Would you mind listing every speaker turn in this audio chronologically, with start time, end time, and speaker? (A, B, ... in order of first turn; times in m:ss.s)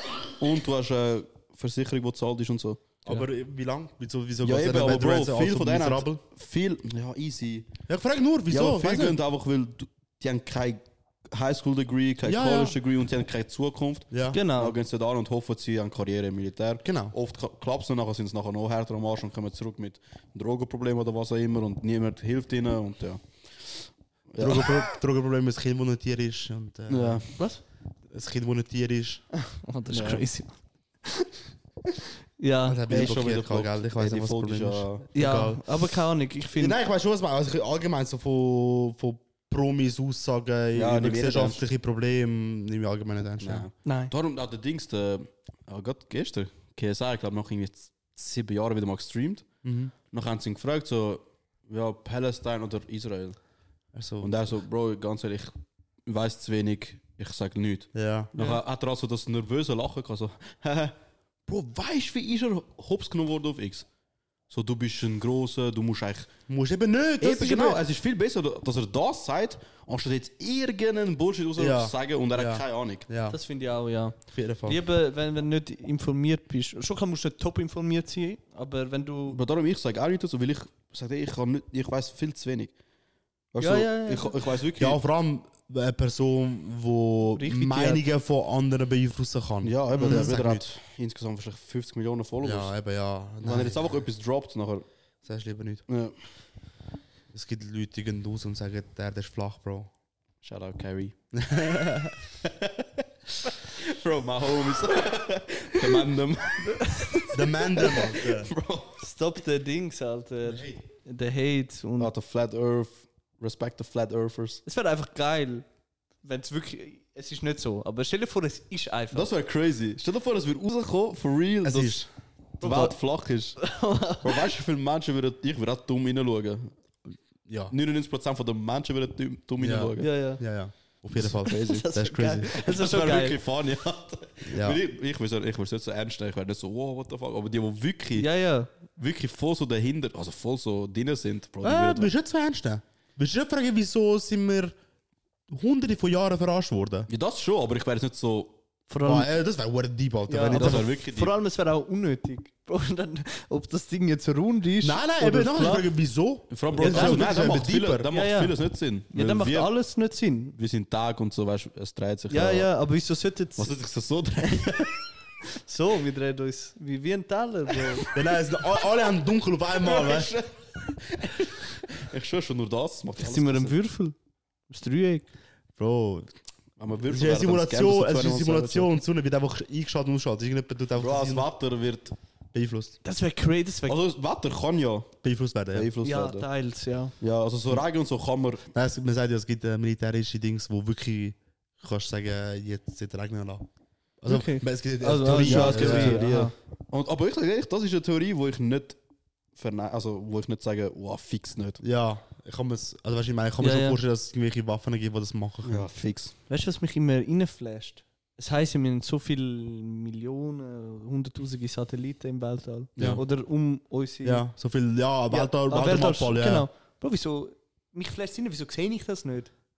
0:00.4-0:02.8 A
0:03.0-0:06.2 B
0:04.4-0:07.7 A
0:07.9-0:09.2 B
0:08.5-0:24.8 A
0:12.2-0:12.8 B
0:14.1-0:14.4 B
0:14.3-0:14.8 C
0:16.8-0:17.1 B
0:24.4-0:27.2 B
0:26.9-0:27.3 A
0:27.4-0:27.6 C
0:28.1-0:29.2 B
0:29.3-0:31.3 C
0:29.9-0:30.2 A
0:32.4-0:32.8 C
0:32.7-0:35.6 B
0:32.9-0:35.0 A
0:35.1-0:36.8 C
0:36.6-0:43.6 B
0:40.7-0:41.6 A
0:43.4-0:49.4 A
0:43.8-0:44.1 C
0:49.6-0:49.9 B
0:50.1-0:53.4 A
0:53.9-0:54.5 B
0:54.2-1:01.0 A
0:57.9-0:58.6 B
1:01.5-1:03.8 A
1:04.5-1:06.3 A
1:06.5-1:07.8 B
1:07.2-1:13.0 A
1:11.6-1:13.4 B
1:13.3-1:19.4 C
1:14.3-1:14.8 B
1:19.3-1:22.7 A
1:23.5-1:25.0 A
1:23.6-1:24.4 C
1:24.8-1:30.6 B
1:27.4-1:28.0 C
1:29.6-1:32.7 A
1:30.0-1:30.3 C
1:32.4-1:34.0 B
1:33.4-1:34.8 A
1:35.2-1:35.8 B
1:35.9-1:36.1 A
1:37.3-1:39.9 B
1:40.4-1:41.1 A
1:41.3-1:42.2 B
1:43.5-1:49.1 A
1:47.3-1:48.5 B
1:49.0-1:52.1 C
1:50.4-1:50.8 B
1:52.0-1:54.6 A
1:54.6-1:55.6 C
1:56.2-1:59.3 C
1:59.1-2:02.0 A
2:01.6-2:02.1 B
2:02.6-2:06.7 A
2:02.6-2:04.5 C
2:07.4-2:07.7 B
2:07.7-2:10.1 A
2:09.6-2:12.5 B
2:10.0-2:10.4 C
2:11.2-2:11.8 A
2:11.5-2:13.4 C
2:12.5-2:18.3 A
2:14.5-2:14.8 B
2:18.2-2:18.7 C
2:19.0-2:22.1 A
2:21.6-2:24.7 B
2:25.5-2:27.1 B
2:27.1-2:28.6 A
2:28.9-2:29.3 C
2:29.0-2:30.9 B
2:30.3-2:35.9 C
2:30.5-2:31.3 A
2:34.8-2:38.1 B
2:36.5-2:39.7 A
2:36.8-2:37.5 C
2:38.1-2:40.6 C
2:40.6-2:42.7 A
2:42.3-2:43.8 C
2:43.6-2:45.0 A
2:45.6-2:48.1 C
2:48.1-2:50.3 B
2:49.8-2:53.8 A
2:53.2-2:54.1 C
2:54.7-2:55.3 C
2:55.8-2:56.3 B
2:56.8-2:58.9 A
2:57.1-3:01.5 B
3:01.0-3:02.1 A
3:02.5-3:02.9 B
3:03.0-3:04.0 C
3:03.8-3:05.1 A
3:05.2-3:05.9 B
3:05.7-3:06.5 A
3:06.0-3:07.1 C
3:07.2-3:08.6 A
3:08.7-3:13.6 B
3:14.2-3:16.2 B
3:14.3-3:16.5 C
3:15.3-3:19.0 A
3:19.5-3:21.8 A
3:21.8-3:25.9 B
3:23.6-3:24.0 C
3:25.6-3:26.3 A
3:26.5-3:34.5 C
3:34.2-3:36.7 B
3:35.3-3:39.5 C